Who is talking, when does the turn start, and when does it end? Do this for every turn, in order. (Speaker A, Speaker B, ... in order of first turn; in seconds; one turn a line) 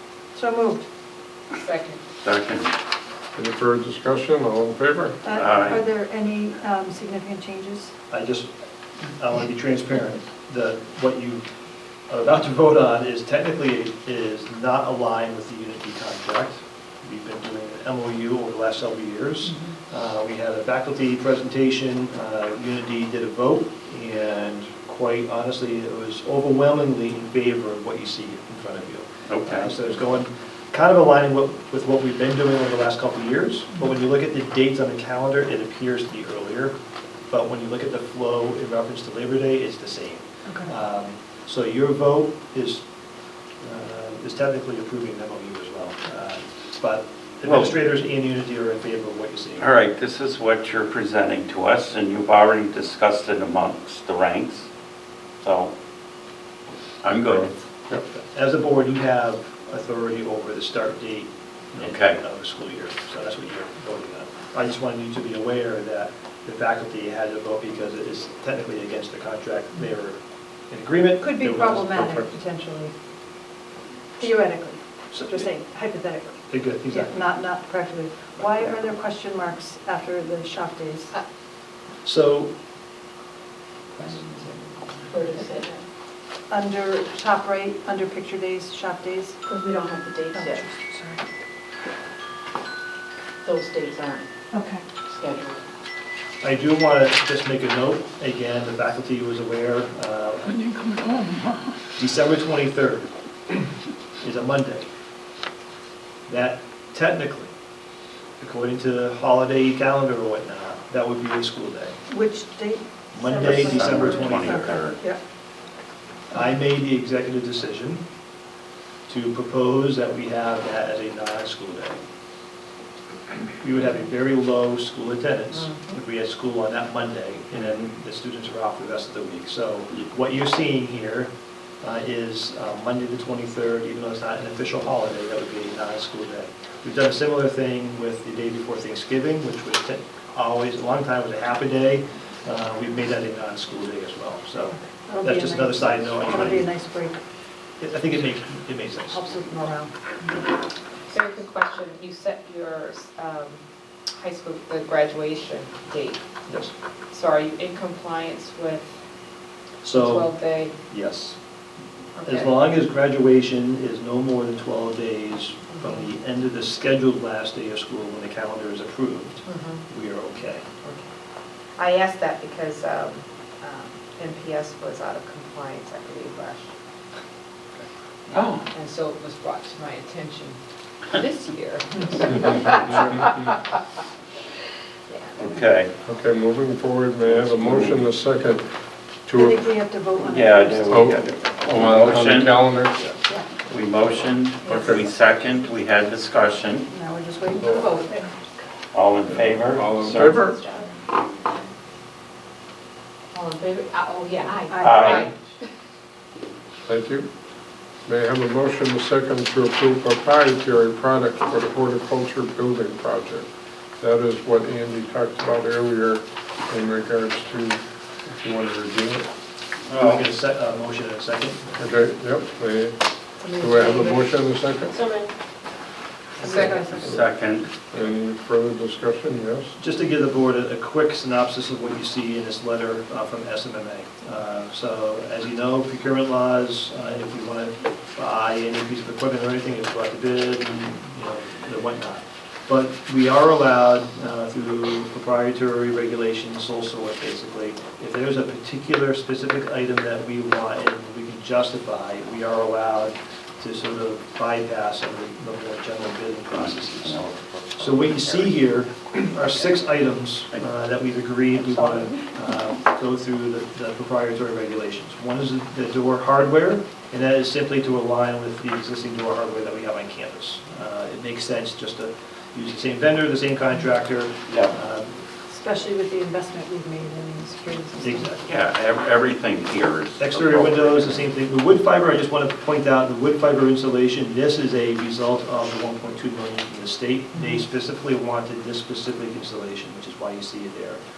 Speaker A: 0.3-0.8
Speaker B: 1.5-2.0
Speaker C: 2.2-2.7
Speaker D: 3.3-5.2
Speaker A: 5.2-7.9
Speaker C: 5.3-5.8
Speaker E: 8.1-8.5
Speaker E: 9.1-11.5
Speaker E: 12.1-36.7
Speaker C: 29.3-29.7
Speaker E: 37.3-42.8
Speaker A: 40.4-40.7
Speaker E: 43.6-49.7
Speaker C: 47.4-47.8
Speaker C: 49.6-54.7
Speaker C: 55.4-55.7
Speaker C: 57.0-57.5
Speaker E: 57.3-72.3
Speaker C: 61.8-62.2
Speaker A: 71.2-72.9
Speaker A: 74.2-81.1
Speaker E: 75.1-75.5
Speaker E: 76.5-77.3
Speaker E: 82.0-82.5
Speaker B: 84.0-85.4
Speaker F: 85.1-85.8
Speaker A: 86.5-89.4
Speaker F: 89.5-90.6
Speaker A: 90.3-91.2
Speaker F: 93.4-94.3
Speaker A: 94.5-94.8
Speaker F: 95.0-95.6
Speaker E: 96.4-100.7
Speaker E: 102.0-103.6
Speaker E: 104.2-104.9
Speaker E: 106.3-107.5
Speaker E: 108.4-112.0
Speaker A: 112.1-115.2
Speaker E: 113.1-114.7
Speaker C: 113.4-115.0
Speaker E: 116.3-118.0
Speaker E: 119.1-122.0
Speaker E: 123.6-146.7
Speaker A: 144.8-147.2
Speaker E: 147.8-149.2
Speaker A: 149.1-149.9
Speaker B: 151.1-153.6
Speaker B: 154.2-156.2
Speaker B: 157.1-158.9
Speaker E: 159.8-160.3
Speaker B: 159.9-160.8
Speaker E: 160.9-161.4
Speaker B: 162.2-162.5
Speaker E: 162.2-170.6
Speaker B: 165.7-166.1
Speaker B: 169.4-169.8
Speaker B: 171.8-176.7
Speaker B: 178.3-183.5
Speaker C: 178.3-178.7
Speaker B: 185.1-185.8
Speaker C: 185.4-185.9
Speaker D: 186.1-188.7
Speaker C: 187.2-188.1
Speaker D: 189.2-189.6
Speaker A: 189.3-191.4
Speaker C: 190.2-192.8
Speaker D: 190.9-193.0
Speaker A: 193.2-193.5
Speaker C: 193.7-196.9
Speaker B: 194.6-195.8
Speaker D: 194.7-195.0
Speaker A: 196.8-198.3
Speaker D: 197.6-197.9
Speaker B: 197.6-198.4
Speaker C: 198.9-200.4
Speaker D: 199.2-200.6
Speaker B: 200.1-201.3
Speaker B: 203.3-205.7
Speaker A: 204.6-205.2
Speaker C: 204.8-205.2
Speaker D: 206.9-207.3
Speaker D: 208.0-219.3
Speaker C: 219.9-220.3
Speaker E: 220.0-221.8
Speaker D: 221.8-225.0
Speaker A: 223.4-224.3
Speaker F: 224.9-225.3
Speaker A: 226.4-227.3
Speaker C: 226.4-227.7
Speaker D: 227.9-229.7
Speaker E: 229.8-275.2
Speaker C: 256.5-258.6
Speaker C: 259.4-259.9
Speaker C: 274.5-274.8
Speaker A: 275.5-278.4
Speaker E: 278.0-278.4
Speaker C: 278.4-281.3
Speaker E: 280.2-291.0